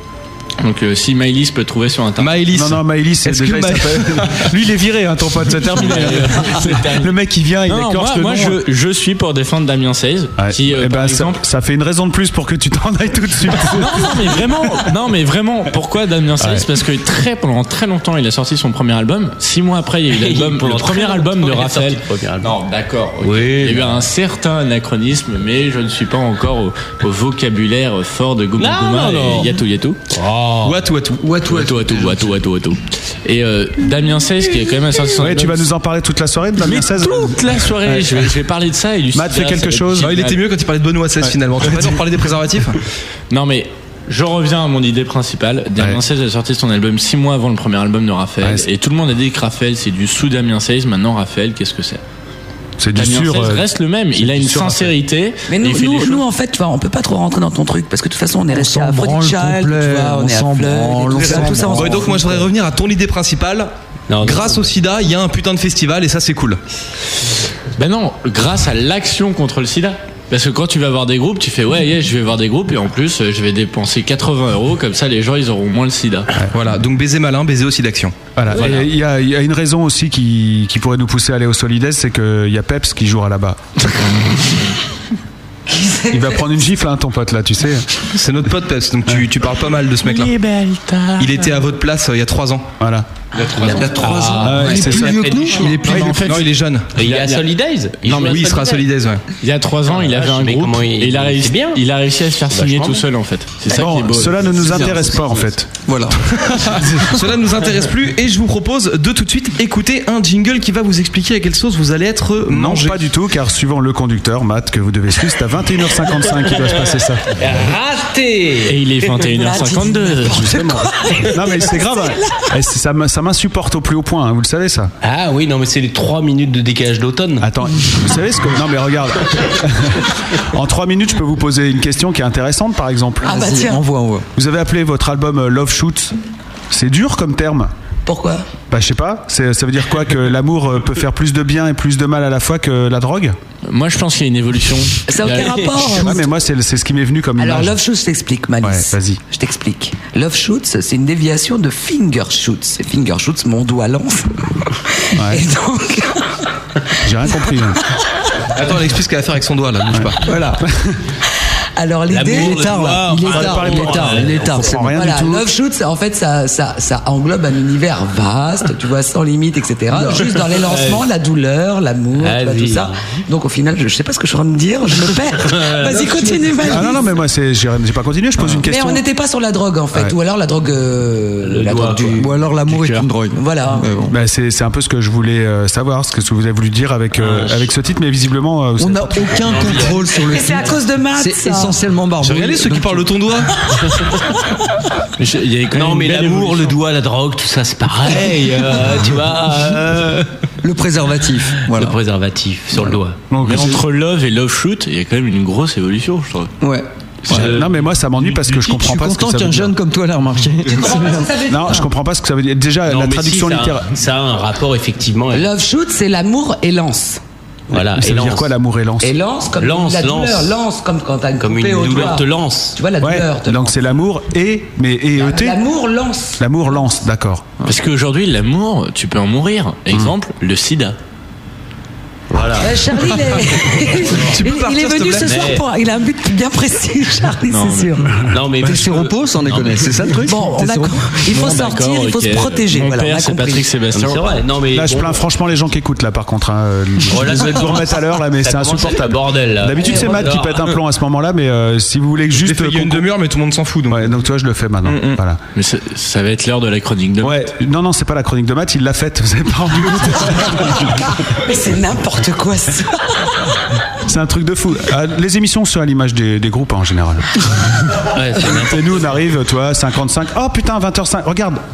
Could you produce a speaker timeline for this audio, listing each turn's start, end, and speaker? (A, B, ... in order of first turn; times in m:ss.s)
0:00.6-0:02.5 A
0:02.2-0:04.5 B
0:02.5-0:08.6 C
0:05.7-0:07.1 A
0:07.7-0:11.4 A
0:10.4-0:14.5 C
0:13.6-0:30.0 A
0:16.4-0:16.7 C
0:20.1-0:22.5 D
0:23.2-0:24.0 D
0:28.6-0:29.5 D
0:30.1-0:30.8 D
0:30.6-0:31.2 B
0:31.2-0:32.4 E
0:31.5-0:35.7 A
0:35.2-0:38.4 C
0:36.6-0:40.4 A
0:39.1-0:40.2 C
0:40.0-0:42.8 B
0:43.3-0:52.0 A
0:48.4-0:48.7 C
0:52.8-0:53.6 C
0:53.0-0:56.2 A
0:54.2-0:54.9 C
0:55.5-1:02.1 F
0:58.5-1:02.4 E
1:01.7-1:06.6 B
1:04.1-1:04.7 D
1:07.8-1:16.3 A
1:16.5-1:18.2 B
1:18.4-1:24.0 C
1:25.7-1:26.5 F
1:26.1-1:27.9 C
1:28.1-1:30.3 B
1:30.0-1:31.6 A
1:31.2-1:32.7 B
1:32.8-1:33.1 C
1:33.4-1:35.8 D
1:33.4-1:34.4 F
1:33.6-1:36.3 E
1:34.4-1:36.4 C
1:35.6-1:37.5 A
1:36.1-1:36.9 B
1:37.0-1:38.8 D
1:38.0-1:38.7 A
1:38.1-1:39.2 B
1:39.4-1:44.8 A
1:39.9-1:41.8 D
1:42.5-1:43.1 D
1:43.7-1:45.9 C
1:44.6-1:45.1 E
1:45.8-1:46.6 E
1:46.4-1:53.1 B
1:46.8-1:47.2 C
1:52.5-1:57.3 C
1:57.4-1:58.8 D
1:58.7-2:00.5 A
1:59.2-2:02.5 F
2:00.2-2:04.9 C
2:05.0-2:07.5 D
2:07.4-2:13.4 C
2:13.2-2:13.8 F
2:13.2-2:14.3 E
2:14.4-2:16.2 C
2:16.7-2:17.7 C
2:18.1-2:18.5 F
2:18.7-2:23.4 C
2:23.7-2:26.1 A
2:25.1-2:26.3 F
2:25.9-2:27.8 C
2:27.4-2:36.5 F
2:28.6-2:29.2 C
2:35.2-2:35.4 C
2:37.0-2:37.8 C
2:38.5-2:40.2 B
2:39.9-2:41.0 C
2:40.2-2:40.6 E
2:41.8-2:57.1 F
2:42.1-2:44.7 D
2:42.3-2:44.9 E
2:43.3-2:45.5 C
2:49.9-2:50.3 E
2:50.4-2:51.1 D
2:52.2-2:53.0 D
2:55.4-2:56.8 D
2:56.7-2:59.0 C
2:58.6-3:02.3 F
3:01.4-3:02.3 D
3:02.2-3:04.2 E
3:02.7-3:03.1 A
3:03.4-3:03.9 F
3:04.1-3:09.6 C
3:07.2-3:07.7 D
3:08.8-3:13.1 E
3:09.4-3:10.5 D
3:10.2-3:11.8 F
3:12.2-3:13.6 B
3:15.2-3:16.8 A
3:15.7-3:20.3 D
3:20.6-3:22.0 E
3:21.7-3:23.2 D
3:23.3-3:23.8 C
3:23.4-3:26.5 A
3:26.6-3:27.5 E
3:27.3-3:29.7 C
3:27.3-3:27.9 D
3:28.4-3:31.4 E
3:30.7-3:31.8 F
3:31.5-3:33.9 C
3:32.9-3:35.5 D
3:35.3-3:37.2 F
3:37.7-3:38.5 D
3:37.8-3:39.2 C
3:39.0-3:43.7 F
3:39.6-3:40.6 D
3:41.4-3:42.8 D
3:43.0-3:45.6 C
3:45.2-3:46.4 F
3:46.4-3:47.5 C
3:47.7-3:51.0 A
3:52.3-3:53.2 D
3:52.6-3:58.2 F
3:54.1-3:55.5 B
3:55.2-3:55.6 D
3:57.5-3:58.0 A
3:58.3-3:59.9 D
3:58.6-4:01.2 E
4:00.3-4:03.7 F
4:01.3-4:04.3 A
4:03.9-4:05.3 D
4:04.7-4:13.1 C
4:07.1-4:10.8 D
4:09.8-4:10.3 F
4:12.4-4:14.1 B
4:13.9-4:15.4 C
4:14.9-4:17.4 A
4:17.2-4:21.2 C
4:21.4-4:23.5 F
4:24.0-4:27.3 C
4:28.1-4:29.2 D
4:28.5-4:31.6 C